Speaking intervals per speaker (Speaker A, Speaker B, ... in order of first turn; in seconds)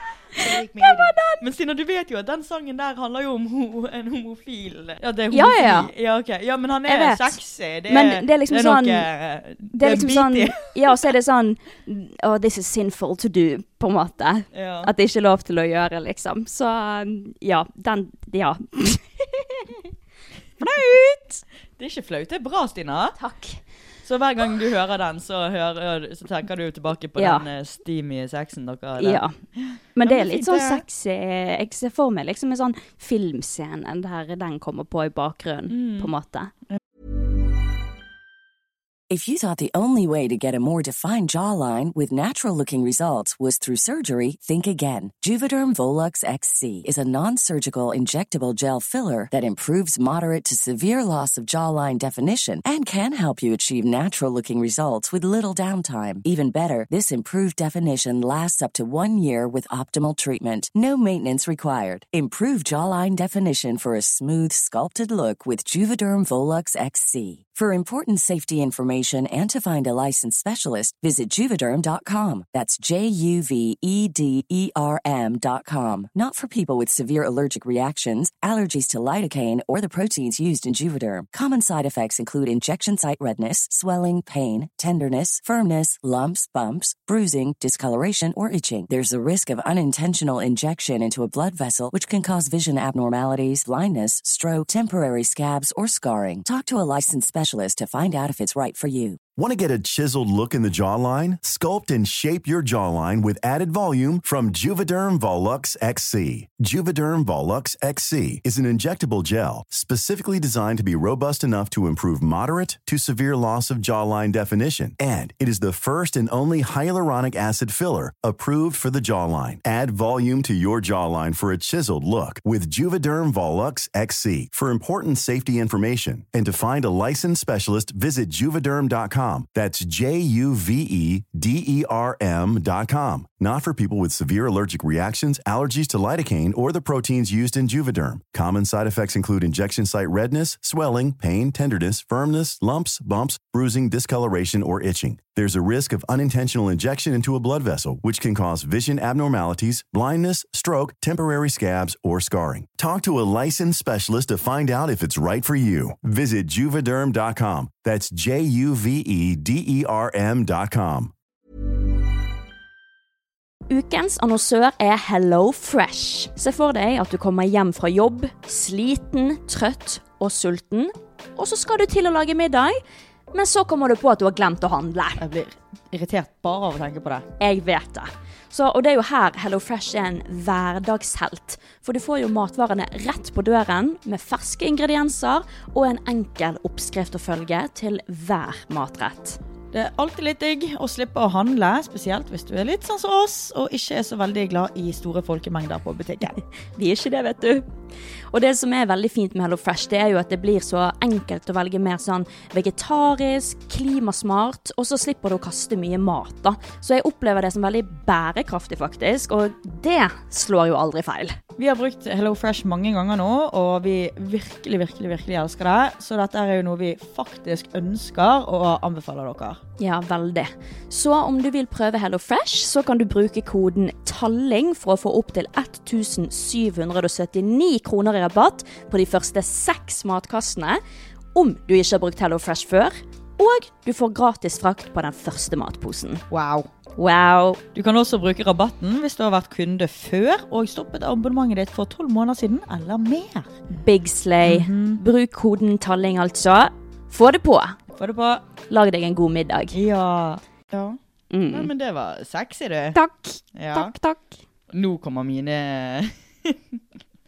Speaker A: 0.3-11.1, 14.5-14.9, 21.8-23.2, 24.1-30.8, 35.7-36.1, 175.2-177.3, 189.7-196.4, 211.6-219.6, 236.3-236.7, 237.8-243.5, 244.4-245.0, 247.9-248.4, 249.7-253.0, 253.5-253.9, 254.7-256.8
Speaker B: 0.4-1.4, 5.3-5.9, 6.9-9.1, 9.7-19.9, 20.6-21.4, 23.2-23.6, 27.2-27.5, 29.0-29.3, 29.9-36.5, 163.7-172.8, 173.3-175.2, 177.4-189.4, 196.8-197.7, 198.3-211.4, 219.8-230.8, 231.3-236.2, 237.0-237.6, 243.7-247.8, 248.7-249.8, 251.3-251.7, 252.9-254.4
Speaker C: 39.1-99.2
Speaker D: 99.3-161.1